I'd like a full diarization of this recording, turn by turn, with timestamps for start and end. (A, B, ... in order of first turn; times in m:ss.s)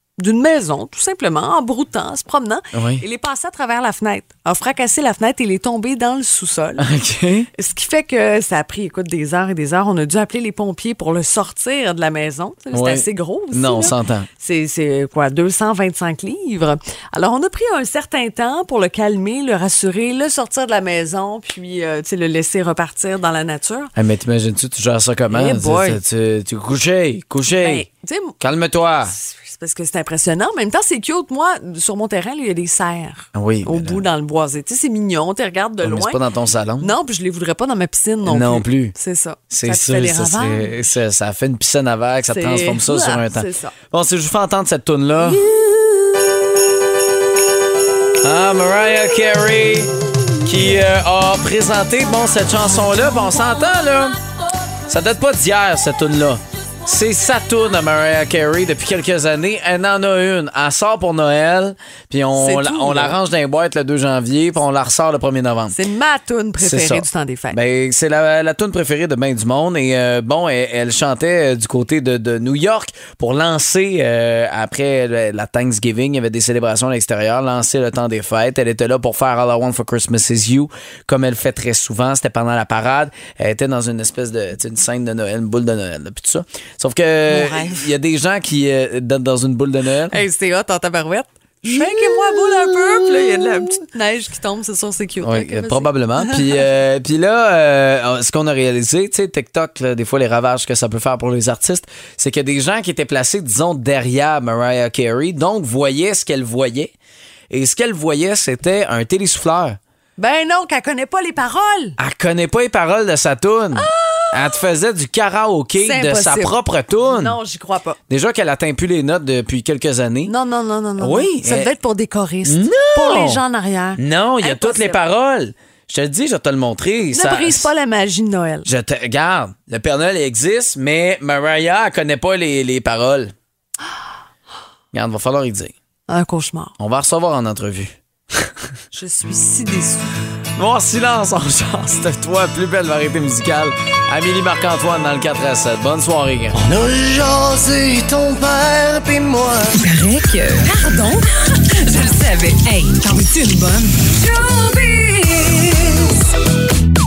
0:00.2-0:06.9 A
0:02.7-0:03.0 B
0:06.8-0:07.5 B
0:07.6-0:23.9 A
0:12.7-0:14.3 B
0:24.0-0:27.9 B
0:25.3-0:26.0 A
0:27.5-0:28.4 A
0:28.4-0:29.2 B
0:29.1-0:36.2 A
0:33.4-0:34.0 B
0:35.8-0:36.9 B
0:36.8-0:40.7 A
0:38.3-0:39.0 B
0:39.5-0:45.4 B
0:42.2-0:43.8 A
0:45.2-0:45.6 A
0:48.2-0:54.2 B
0:54.9-1:05.8 B
1:02.4-1:03.2 A
1:05.7-1:07.6 A
1:06.6-1:30.2 B
1:27.3-1:27.9 A
1:30.1-1:36.5 A
1:31.6-1:33.8 B
1:35.2-1:46.9 B
1:47.5-1:49.8 B
1:50.2-1:52.0 A
1:52.0-1:57.4 B
1:53.8-1:54.6 A
1:55.8-1:58.0 A
1:58.1-2:00.3 B
2:00.3-2:05.0 A
2:01.0-2:01.7 B
2:02.4-2:03.4 B
2:04.0-2:07.7 B
2:07.1-2:08.7 A
2:08.7-2:13.3 B
2:14.9-2:15.7 B
2:16.1-2:16.7 A
2:16.8-2:18.5 B
2:18.9-2:20.1 A
2:20.6-2:26.6 B
2:26.6-2:29.8 C
2:29.8-2:36.1 A